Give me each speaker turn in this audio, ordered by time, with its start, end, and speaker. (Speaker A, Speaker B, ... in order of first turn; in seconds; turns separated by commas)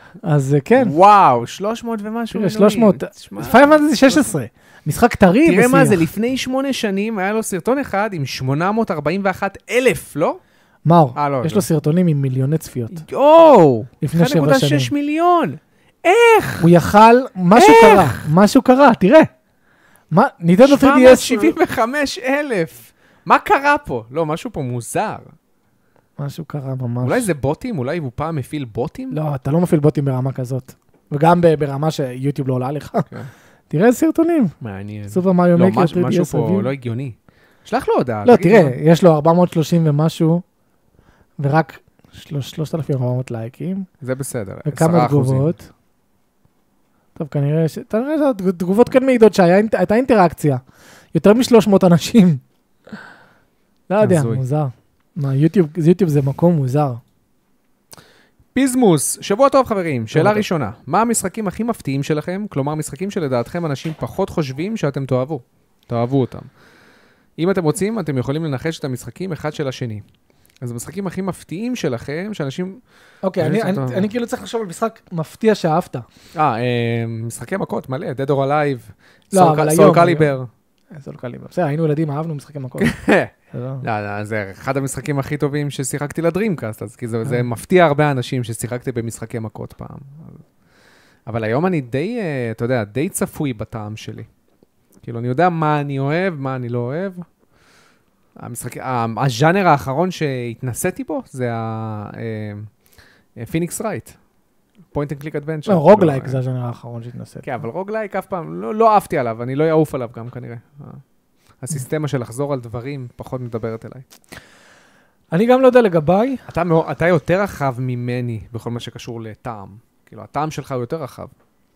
Speaker A: 0.2-0.9, Speaker B: 0.8-4.3, Speaker A: 2.3-6.0, Speaker B: 5.4-10.4, Speaker A: 10.8-13.0, Speaker B: 11.2-11.7, Speaker B: 12.9-16.7, Speaker A: 14.0-14.9, Speaker A: 16.6-19.3, Speaker B: 17.5-18.2, Speaker A: 20.1-21.6, Speaker B: 20.6-25.3, Speaker A: 26.2-27.3, Speaker B: 27.0-29.2, Speaker A: 29.1-33.1, Speaker A: 33.7-34.5, Speaker B: 34.6-38.8, Speaker A: 35.1-36.7, Speaker A: 38.2-40.4, Speaker A: 41.4-43.9, Speaker B: 44.0-45.5, Speaker A: 44.6-45.7, Speaker A: 47.1-50.6, Speaker A: 51.1-52.4, Speaker A: 53.9-57.0, Speaker B: 54.0-54.4, Speaker B: 58.5-66.5, Speaker A: 60.1-60.5, Speaker B: 67.4-70.0, Speaker B: 70.6-72.8, Speaker A: 73.2-76.0, Speaker B: 73.4-74.1, Speaker B: 76.3-80.5, Speaker A: 79.3-80.3, Speaker A: 80.9-82.9, Speaker B: 82.8-90.4, Speaker A: 83.5-83.8, Speaker B: 91.3-94.3, Speaker B: 95.0-97.2, Speaker B: 98.4-102.7, Speaker B: 103.4-104.2, Speaker B: 104.9-106.4, Speaker A: 105.7-107.5, Speaker B: 107.4-111.0, Speaker B: 111.6-114.0, Speaker A: 115.3-116.4, Speaker B: 116.5-121.3